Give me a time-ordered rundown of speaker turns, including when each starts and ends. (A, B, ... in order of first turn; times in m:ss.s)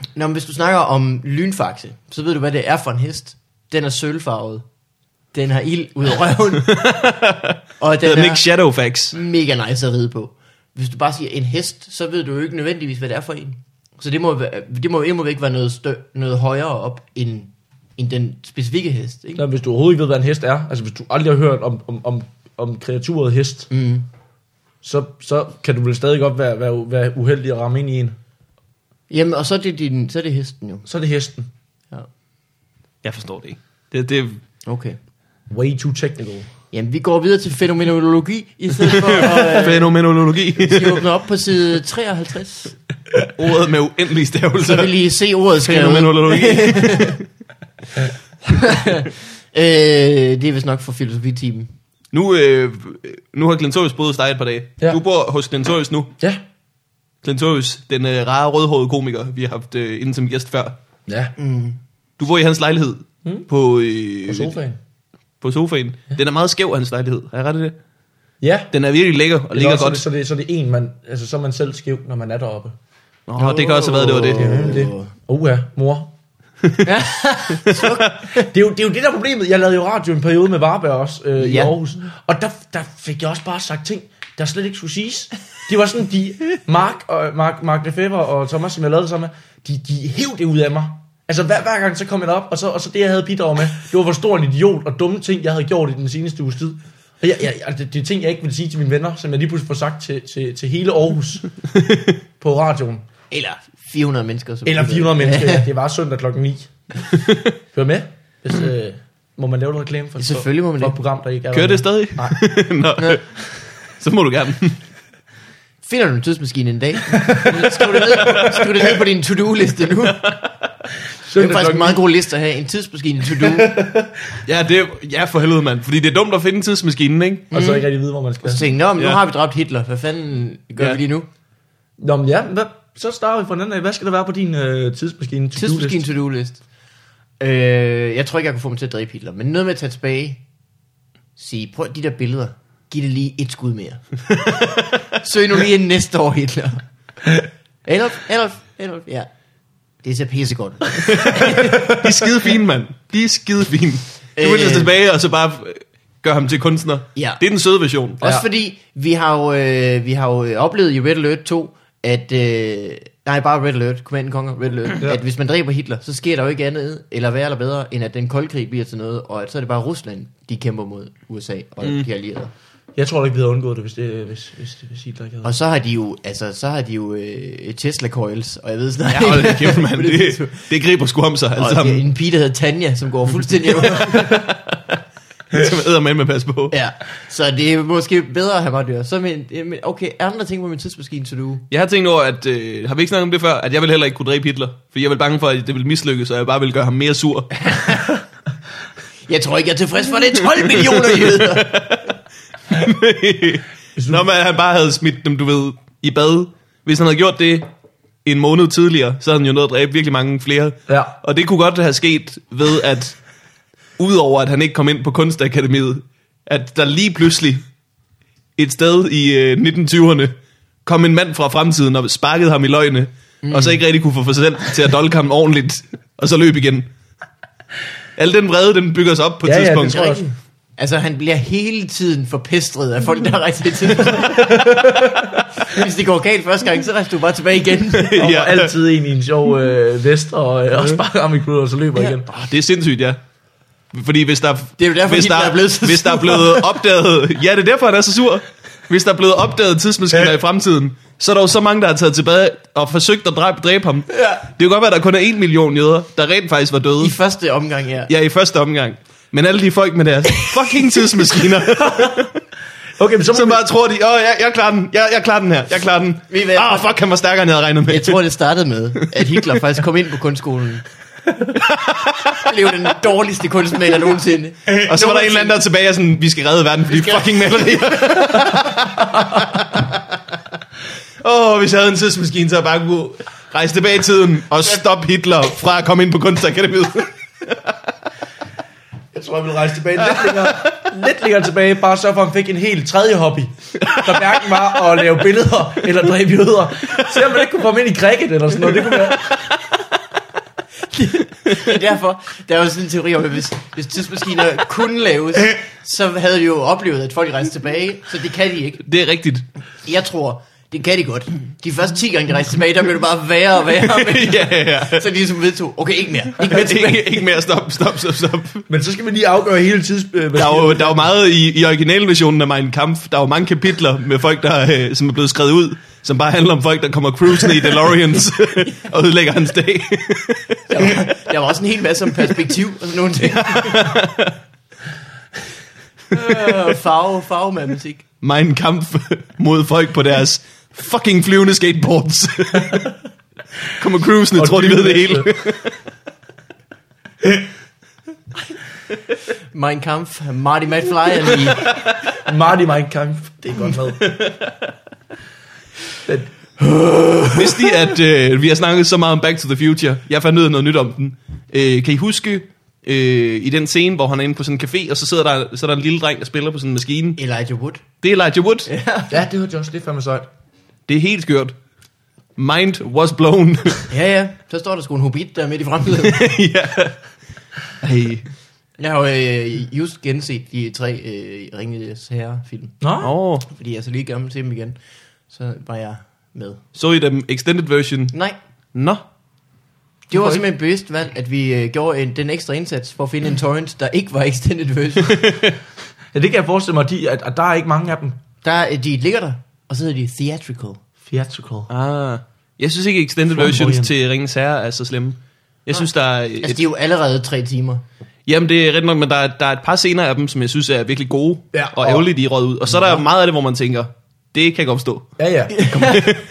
0:00.2-0:04.6 A
0:05.3-0:06.8 A
0:06.7-0:09.2 B
0:07.8-0:08.4 A
0:09.1-0:19.4 A
0:19.4-0:23.7 C
0:23.7-0:24.1 A
0:24.8-0:28.2 C
0:29.1-0:30.8 A
0:30.8-0:31.5 C
0:33.0-0:34.4 B
0:34.7-0:35.0 A
0:35.5-0:36.5 C
0:36.7-0:40.0 A
0:38.9-0:41.1 B
0:40.6-0:42.8 A
0:43.4-0:45.0 B
0:44.6-0:47.2 A
0:45.6-0:47.2 B
0:48.5-0:51.7 A
0:52.1-0:56.1 B
0:57.2-1:00.8 B
1:01.1-1:01.3 C
1:01.4-1:01.8 A
1:02.2-1:04.5 B
1:04.3-1:04.8 C
1:05.4-1:07.8 B
1:08.4-1:08.7 C
1:08.7-1:10.0 B
1:09.5-1:12.8 C
1:13.3-1:14.6 B
1:13.4-1:15.1 A
1:14.4-1:16.1 C
1:16.8-1:18.5 A
1:18.4-1:41.5 C
1:21.4-1:21.7 A
1:42.4-1:43.1 C
1:43.3-1:45.7 A
1:44.6-1:46.8 C
1:47.7-1:52.4 C
1:50.2-1:51.0 A
1:51.5-1:54.8 B
1:55.8-2:00.3 A
1:57.2-1:58.5 C
2:01.2-2:02.0 C
2:01.4-2:03.8 A
2:03.4-2:04.1 C
2:04.4-2:07.5 B
2:07.5-2:08.7 C
2:07.5-2:07.8 A
2:08.4-2:11.3 A
2:12.0-2:16.1 C
2:15.6-2:16.6 A
2:17.4-2:20.4 A
2:21.4-2:24.0 A
2:25.1-2:26.8 A
2:27.8-2:29.3 A
2:30.0-2:31.8 A
2:31.1-2:38.2 B
2:34.4-2:34.9 A
2:37.2-2:37.4 A
2:38.2-2:52.5 A
2:53.0-2:55.5 C
2:55.4-3:00.7 A
2:59.1-3:02.0 B
3:01.6-3:04.4 A
3:04.0-3:04.9 B
3:05.5-3:06.8 B
3:06.7-3:11.6 A
3:11.7-3:17.6 B
3:17.6-3:18.1 A
3:19.3-3:21.7 A
3:21.1-3:22.1 B
3:22.7-3:27.7 B
3:24.0-3:24.3 C
3:28.2-3:33.2 B
3:30.9-3:31.2 C
3:34.0-3:37.6 B
3:38.6-3:40.3 B
3:40.8-3:46.9 B
3:43.4-3:43.8 A
3:48.2-3:50.2 B
3:49.4-3:50.3 C
3:49.9-3:50.2 A
3:50.8-3:54.9 A
3:54.3-3:55.3 C
3:55.6-3:58.1 A
3:58.0-3:58.7 B
3:58.2-4:02.3 C
4:02.5-4:03.2 B
4:03.9-4:17.2 B
4:04.8-4:06.7 A
4:14.1-4:14.4 A
4:17.0-4:18.1 A
4:18.1-4:22.4 B
4:21.8-4:22.2 C
4:23.0-4:23.6 C
4:23.3-4:28.2 B
4:26.3-4:26.9 A
4:27.9-4:30.8 A
4:32.3-4:35.5 A
4:34.7-4:40.0 B
4:36.9-4:38.7 A
4:41.2-4:47.6 B
4:49.1-4:59.5 C
4:50.2-4:50.7 B
4:53.8-4:54.2 B
5:00.9-5:08.8 A
5:08.8-5:09.4 B
5:09.8-5:17.2 A
5:13.8-5:15.0 B
5:16.4-5:18.7 B
5:18.7-5:21.1 C
5:20.4-5:31.0 B
5:30.7-5:34.0 A
5:33.3-5:34.3 B
5:36.1-5:38.0 A
5:38.2-5:42.8 B
5:43.8-5:45.8 B
5:44.4-5:45.3 C
5:49.5-5:51.7 A
5:52.2-5:54.1 C
5:54.1-5:54.3 B
5:56.6-5:57.7 A
5:57.3-6:07.2 B
6:07.2-6:07.8 A
6:08.0-6:08.7 B
6:08.7-6:09.1 A
6:09.1-6:10.3 C
6:10.9-6:11.6 B
6:12.4-6:13.9 B
6:13.9-6:16.3 A
6:16.0-6:17.0 B
6:17.8-6:18.3 B
6:18.8-6:22.8 A
6:22.8-6:23.1 C
6:23.0-6:23.5 B
6:23.5-6:24.8 A
6:25.3-6:26.6 A
6:26.8-6:28.2 B
6:28.7-6:29.0 B
6:30.1-6:30.4 C
6:30.1-6:35.2 A
6:35.1-6:35.6 B
6:36.1-6:38.2 C
6:38.4-6:40.8 A
6:41.1-6:41.7 C
6:41.7-6:46.6 B
6:43.3-6:43.9 C
6:46.4-6:47.8 A
6:48.3-6:55.1 B
6:51.5-6:52.1 C
6:52.7-6:53.0 A
6:55.2-6:55.9 C
6:55.6-6:56.1 A
6:55.7-6:56.2 B